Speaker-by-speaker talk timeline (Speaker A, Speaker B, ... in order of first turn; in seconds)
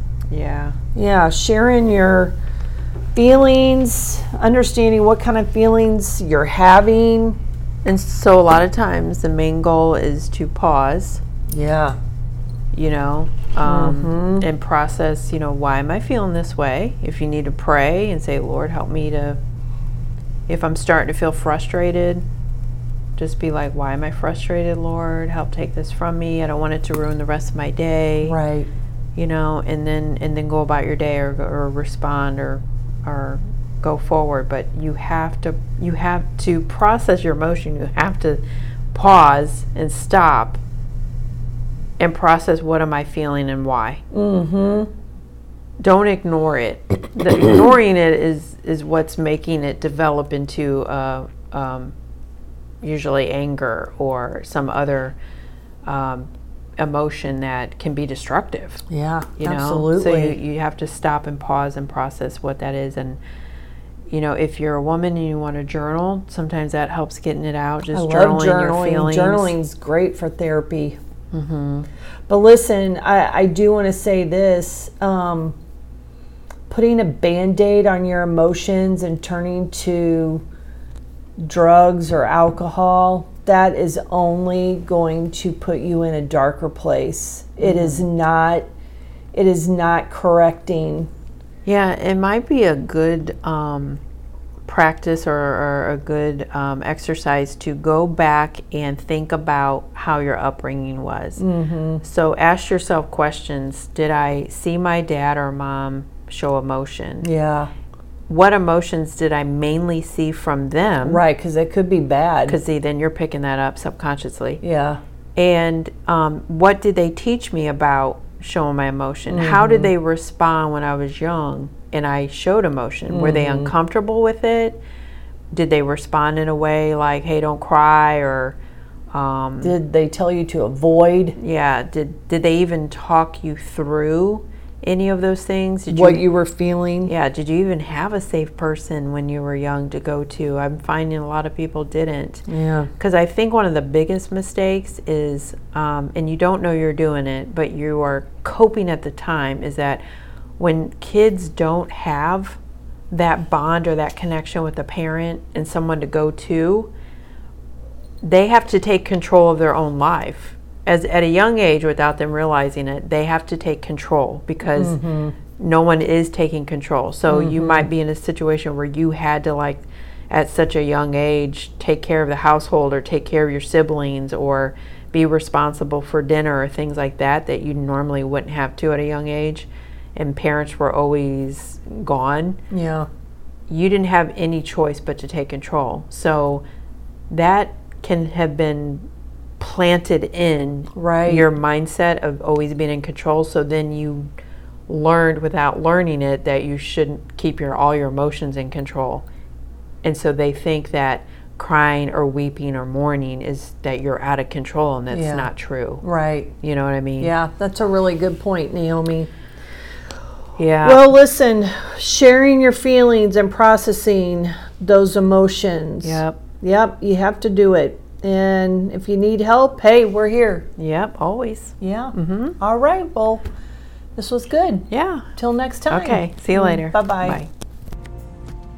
Speaker A: 0.3-0.8, 7.8-11.2, 12.7-19.4, 20.5-22.2, 23.1-28.4, 29.1-38.4, 38.9-40.6, 42.0-44.0, 45.8-51.9, 52.8-55.2, 55.8-58.8, 59.4-63.2, 64.1-69.5, 71.3-71.9, 87.6-88.0, 91.6-94.0, 94.7-101.4, 102.0-107.3, 108.3-111.2, 112.5-114.6, 115.3-124.8, 125.5-128.6, 129.1-129.7, 131.4-136.2, 137.1-142.4, 143.0-150.0, 150.6-152.6, 153.1-156.9, 158.2-165.0, 165.6-182.6, 183.7-186.6, 187.3-189.1, 189.6-194.3, 194.9-199.2, 200.0-206.0, 206.6-207.3, 210.6-211.1, 216.0-216.4, 220.8-222.6, 224.9-225.3, 225.9-227.5
Speaker B: 0.9-2.4, 3.1-7.4, 11.5-12.0, 13.6-14.4, 28.2-28.7, 44.1-44.9, 58.9-60.4, 67.9-71.0, 72.3-75.6, 76.7-80.4, 81.4-88.7, 89.3-91.1, 101.4-102.0, 107.2-107.7, 111.0-112.6, 114.6-115.0, 119.3-119.9, 123.1-123.7, 129.6-131.4, 135.9-137.1, 142.5-142.9, 164.7-165.3, 167.3-167.9, 182.7-183.1, 190.9-191.5, 205.1-205.5, 206.0-206.5, 207.2-209.3, 210.8-220.7, 221.8-223.4, 224.2-227.4